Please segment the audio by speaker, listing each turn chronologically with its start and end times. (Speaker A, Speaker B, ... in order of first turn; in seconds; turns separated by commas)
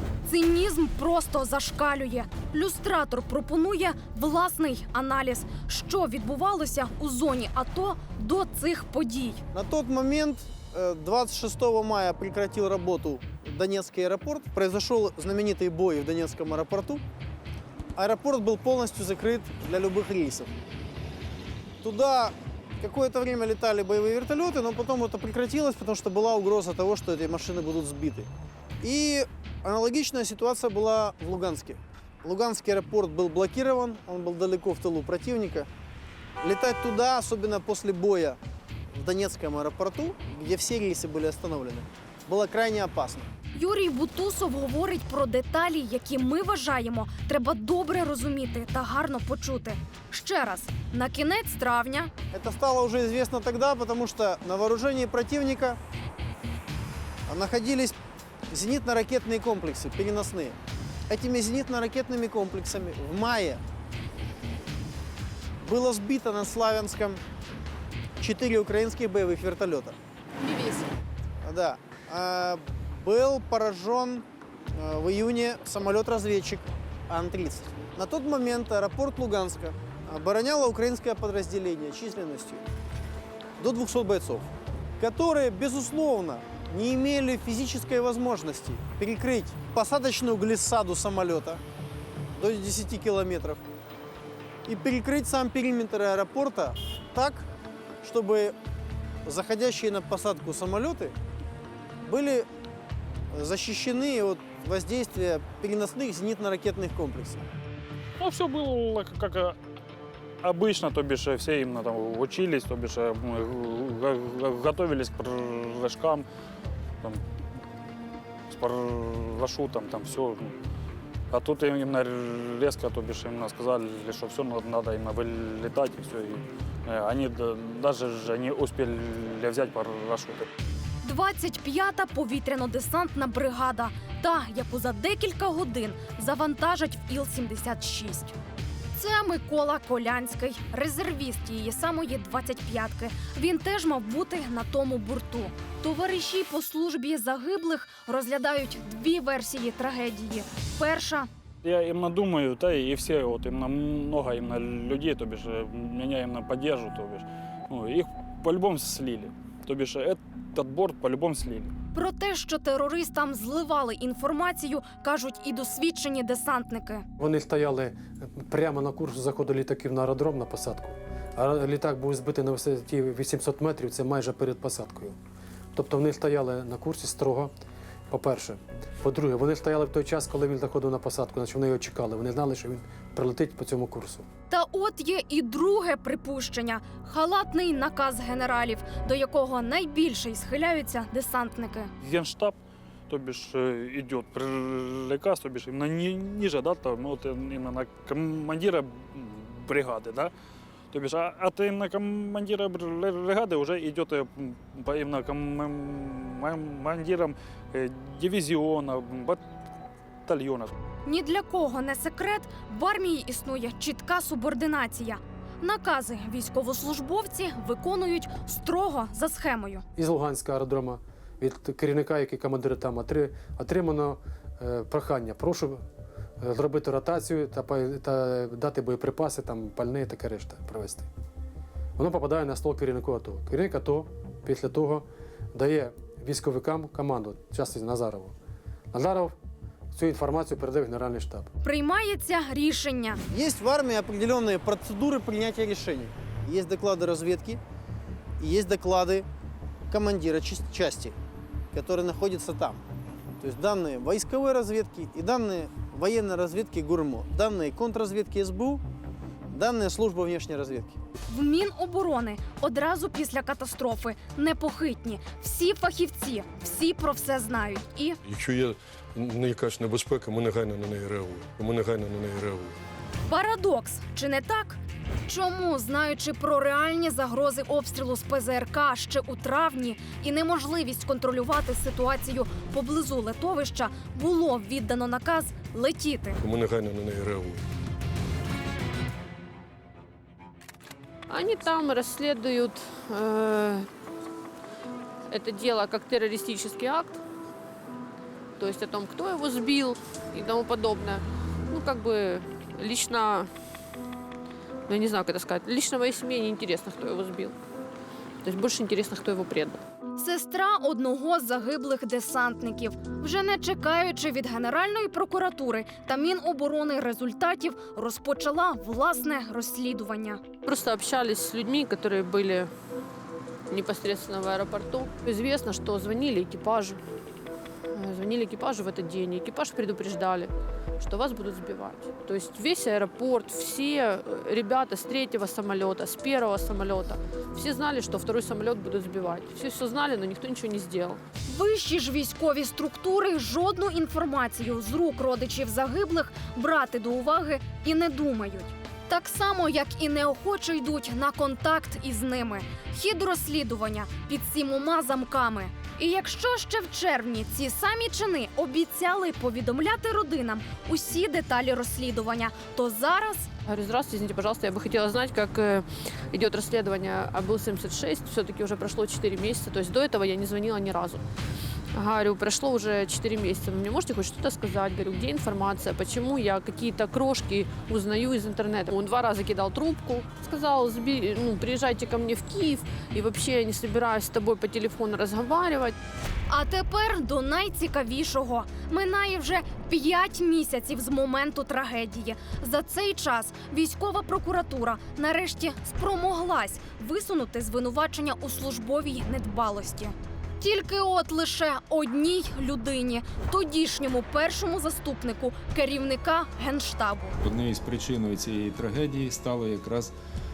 Speaker A: 0.2-9.4, Speaker B: 9.5-17.0, Speaker B: 17.9-20.5, Speaker B: 21.8-28.3, Speaker B: 28.8-35.7, Speaker B: 36.4-38.4, Speaker B: 38.9-43.3, Speaker A: 43.5-52.1, Speaker B: 52.3-55.8, Speaker B: 57.3-58.0, Speaker B: 58.5-60.6, Speaker B: 61.1-63.6, Speaker B: 65.6-67.2, Speaker B: 68.2-70.0, Speaker B: 71.4-82.6, Speaker B: 83.6-91.6, Speaker B: 92.3-93.6, Speaker B: 94.7-97.5, Speaker B: 98.0-98.5, Speaker B: 99.2-101.1, Speaker B: 102.0-102.5, Speaker B: 103.3-107.4, Speaker C: 108.2-109.5, Speaker C: 110.4-116.2, Speaker C: 118.5-120.5, Speaker C: 121.3-130.5, Speaker A: 131.0-138.3, Speaker A: 138.9-151.3, Speaker C: 151.6-161.7, Speaker A: 161.9-167.0, Speaker D: 167.2-175.2, Speaker D: 175.7-177.5, Speaker D: 178.1-184.3, Speaker A: 184.5-191.9, Speaker C: 192.0-192.6, Speaker C: 193.1-200.3, Speaker C: 200.9-209.4, Speaker C: 210.2-210.7, Speaker A: 211.1-219.8, Speaker D: 219.9-225.8, Speaker D: 226.4-231.1, Speaker D: 232.0-238.3, Speaker D: 238.9-239.3, Speaker D: 239.9-241.5, Speaker A: 241.6-243.2, Speaker B: 243.3-247.6, Speaker B: 248.4-249.2, Speaker B: 249.9-251.1, Speaker B: 251.7-252.8, Speaker B: 253.4-258.8, Speaker B: 259.5-261.0, Speaker A: 261.3-268.2, Speaker E: 268.3-272.7, Speaker A: 273.3-286.4, Speaker E: 286.4-287.6, Speaker F: 291.3-293.9, Speaker F: 295.3-297.2, Speaker F: 298.6-303.5, Speaker F: 304.9-307.5, Speaker F: 308.4-309.8, Speaker A: 310.1-320.4, Speaker F: 320.6-322.7, Speaker F: 323.7-327.0, Speaker F: 327.9-341.2, Speaker A: 341.5-363.5, Speaker F: 363.6-371.2, Speaker F: 371.9-385.9, Speaker A: 386.5-407.4, Speaker G: 407.4-410.1